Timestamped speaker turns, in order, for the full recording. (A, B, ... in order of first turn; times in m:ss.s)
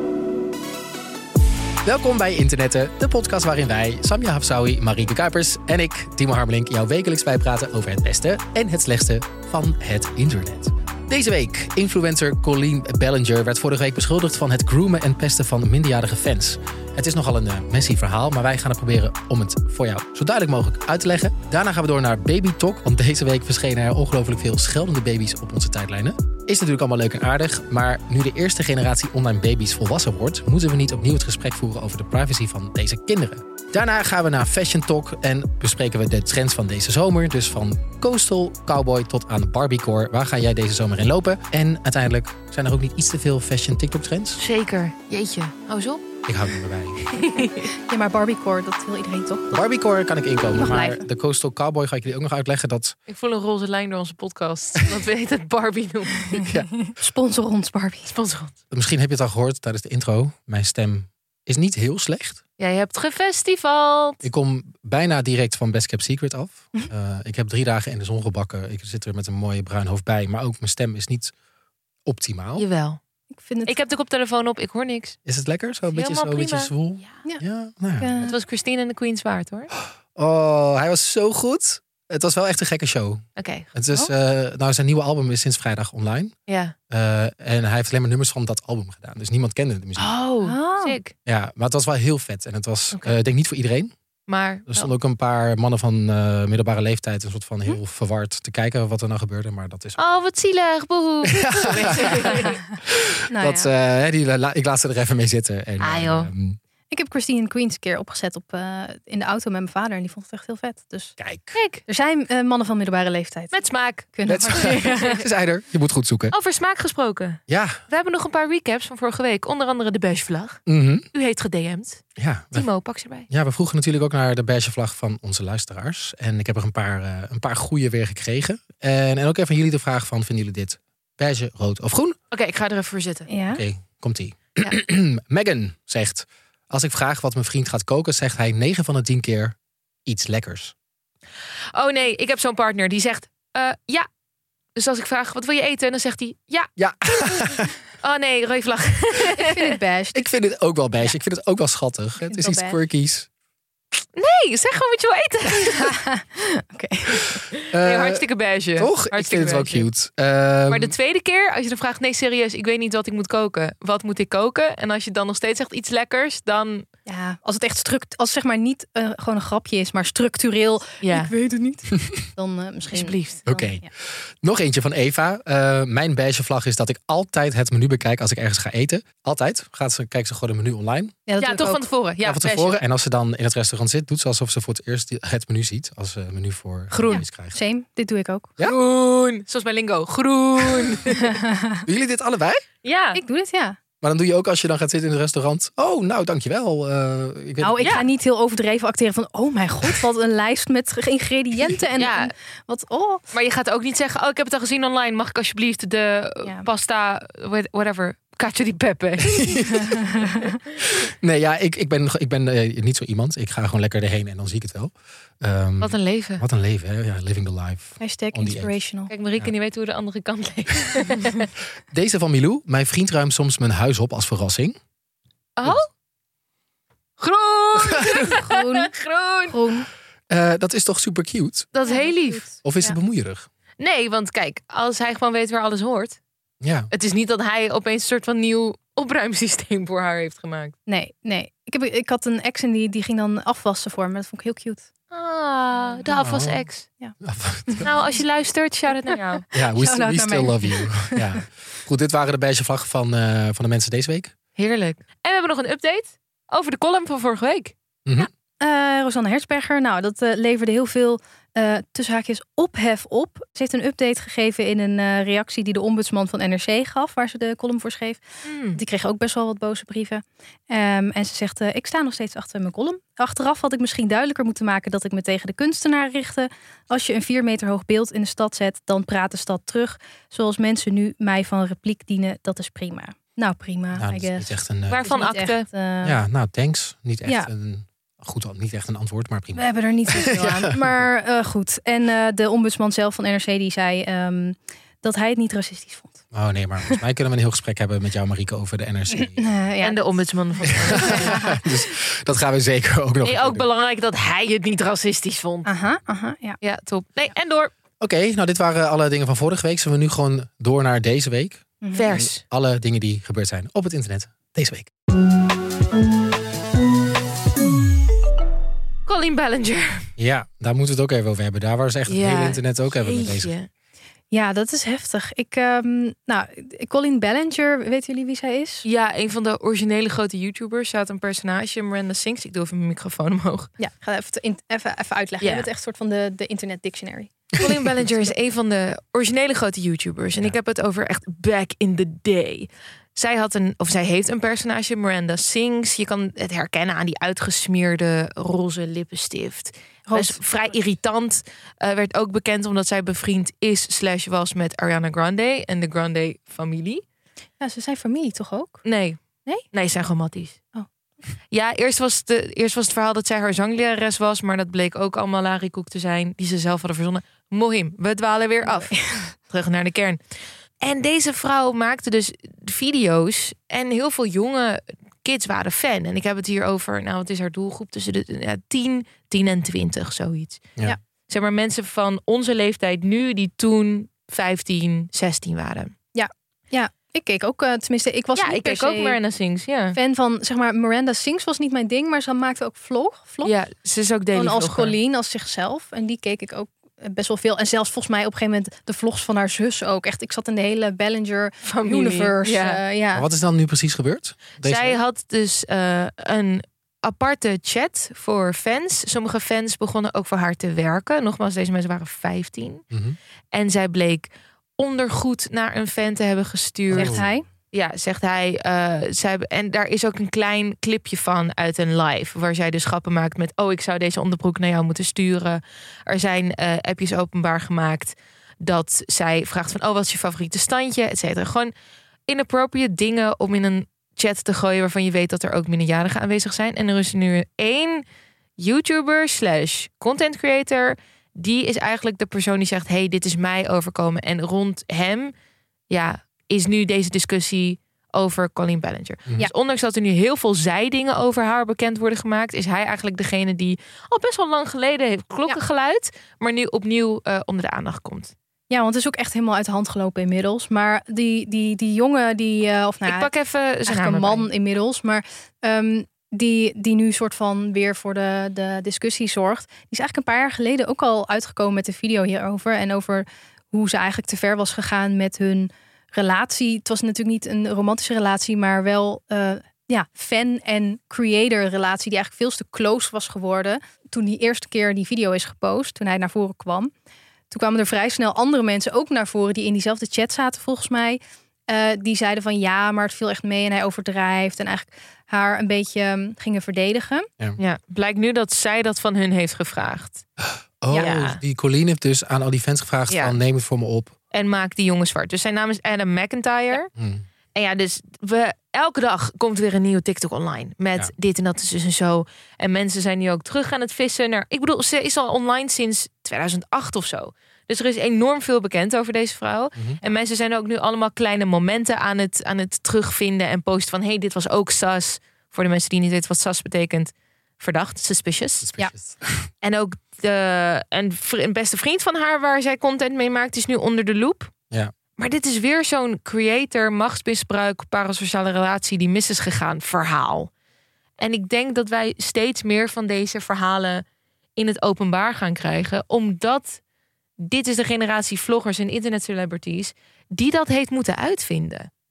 0:01.8-0:44.4 A
0:44.4-0:46.1 B
0:46.2-0:47.1 A
0:47.1-0:47.7 B
0:47.3-0:49.6 C
0:49.5-0:52.9 A
0:50.6-0:51.0 C
0:53.1-0:56.4 B
0:56.3-0:58.1 C
0:56.4-0:56.7 A
0:58.1-0:58.5 B
0:58.7-1:02.4 A
1:02.6-1:04.2 B
1:04.2-1:11.3 A
1:12.0-1:12.6 A
1:12.6-1:13.0 B
1:13.3-1:13.7 C
1:13.7-1:15.2 B
1:15.2-1:18.1 A
1:15.9-1:17.1 B
1:18.0-1:18.4 C
1:18.2-1:19.7 B
1:19.8-1:26.3 A
1:23.4-1:23.7 B
1:26.5-1:26.7 B
1:26.9-1:30.1 A
1:30.0-1:31.1 B
1:30.4-1:31.0 C
1:31.2-1:33.9 A
1:34.3-1:34.9 B
1:34.7-1:40.0 A
1:40.0-1:42.6 B
1:41.2-1:46.6 A
1:43.3-1:43.7 C
1:45.8-1:46.3 B
1:46.9-1:51.2 C
1:51.2-1:51.6 A
1:51.5-1:51.8 B
1:51.9-1:53.6 C
1:53.5-1:55.2 B
1:54.1-1:55.1 C
1:54.3-1:56.3 A
1:56.3-2:00.6 B
1:57.5-1:57.8 A
2:00.7-2:01.0 A
2:01.1-2:03.3 B
2:02.2-2:02.7 A
2:03.3-2:12.2 A
2:12.3-2:13.3 B
2:13.3-2:13.6 C
2:13.5-2:20.7 A
2:21.7-2:24.1 B
2:24.8-2:29.8 B
2:26.8-2:27.7 A
2:29.4-2:30.2 C
2:30.1-2:33.3 A
2:32.3-2:32.8 C
2:34.2-2:36.0 B
2:35.8-2:37.4 C
2:37.5-2:39.9 B
2:37.7-2:38.2 A
2:38.8-2:40.9 A
2:40.7-2:46.8 B
2:47.0-2:53.9 C
2:51.0-2:51.3 B
2:52.9-2:53.4 B
2:53.5-3:01.1 A
3:01.3-3:01.8 C
3:01.4-3:02.8 B
3:02.2-3:07.6 A
3:06.9-3:07.2 B
3:07.1-3:08.6 C
3:08.6-3:11.4 B
3:11.2-3:11.8 C
3:11.8-3:12.6 A
3:12.8-3:13.2 B
3:13.1-3:13.8 C
3:14.0-3:18.0 A
3:17.6-3:23.2 C
3:22.0-3:22.3 B
3:23.3-3:30.3 B
3:29.2-3:29.9 A
3:30.0-3:30.4 C
3:30.8-3:38.7 A
3:35.8-3:36.4 B
3:38.0-3:39.1 C
3:39.1-3:41.5 B
3:41.9-3:44.8 A
3:45.6-3:45.9 B
3:47.2-3:49.6 B
3:47.8-3:48.3 A
3:48.3-3:48.9 C
3:49.5-3:49.9 C
3:50.3-3:51.7 A
3:51.7-3:52.5 B
3:51.8-3:53.0 C
3:52.6-3:53.5 A
3:53.8-3:56.2 B
3:56.6-3:56.9 A
3:56.9-4:00.7 B
4:00.9-4:04.8 C
4:05.1-4:06.9 B
4:05.8-4:06.0 C
4:06.2-4:06.6 A
4:07.2-4:07.9 A
4:07.7-4:08.0 C
4:07.8-4:09.4 B
4:09.5-4:14.3 A
4:09.5-4:11.4 C
4:14.6-4:17.7 B
4:18.0-4:18.3 A
4:18.6-4:44.5 C
4:28.4-4:28.8 B
4:44.0-4:45.0 A
4:44.9-4:45.7 B
4:45.0-4:46.2 C
4:46.0-4:51.0 A
4:49.5-4:56.2 C
4:56.3-4:59.5 A
4:59.1-5:01.6 C
4:59.8-5:01.5 B
5:00.7-5:03.6 A
5:03.2-5:05.7 B
5:05.6-5:06.6 C
5:06.6-5:07.7 B
5:08.0-5:14.9 A
5:11.8-5:12.1 C
5:11.9-5:12.4 B
5:19.1-5:20.1 B
5:20.2-5:23.5 A
5:22.1-5:23.7 B
5:24.3-5:28.8 C
5:28.8-5:33.7 B
5:33.8-5:37.5 C
5:35.4-5:35.7 B
5:37.6-5:57.0 B
5:50.1-5:50.4 C
5:57.6-5:58.8 C
5:58.8-5:59.2 B
5:59.7-6:00.6 B
6:01.5-6:10.2 B
6:08.6-6:09.3 C
6:10.8-6:25.9 B
6:26.1-6:29.2 C
6:28.4-6:30.0 B
6:29.9-6:33.5 C
6:33.4-6:35.0 B
6:34.3-6:43.3 C
6:41.6-6:42.8 B
6:43.1-6:45.0 A
6:44.6-6:52.8 B
6:52.9-6:53.2 A
6:53.5-6:57.2 B
6:56.9-6:57.2 A
6:56.9-6:57.4 C
6:57.7-7:11.7 B
7:12.3-7:18.0 B
7:18.6-7:25.3 B
7:25.9-7:38.3 B
7:38.7-7:43.3 C
7:43.0-7:44.5 B
7:43.8-8:06.9 C
8:07.5-8:17.3 C
8:17.6-8:20.2 B
8:20.4-8:24.1 A
8:20.9-8:21.4 B
8:23.1-8:23.4 B
8:24.3-8:26.9 B
8:26.9-8:27.2 A
8:27.5-8:48.7 B
8:48.6-8:49.5 A
8:49.6-8:54.5 B
8:55.2-9:00.5 B
9:01.2-9:04.0 B
9:04.6-9:06.8 B
9:07.4-9:11.9 B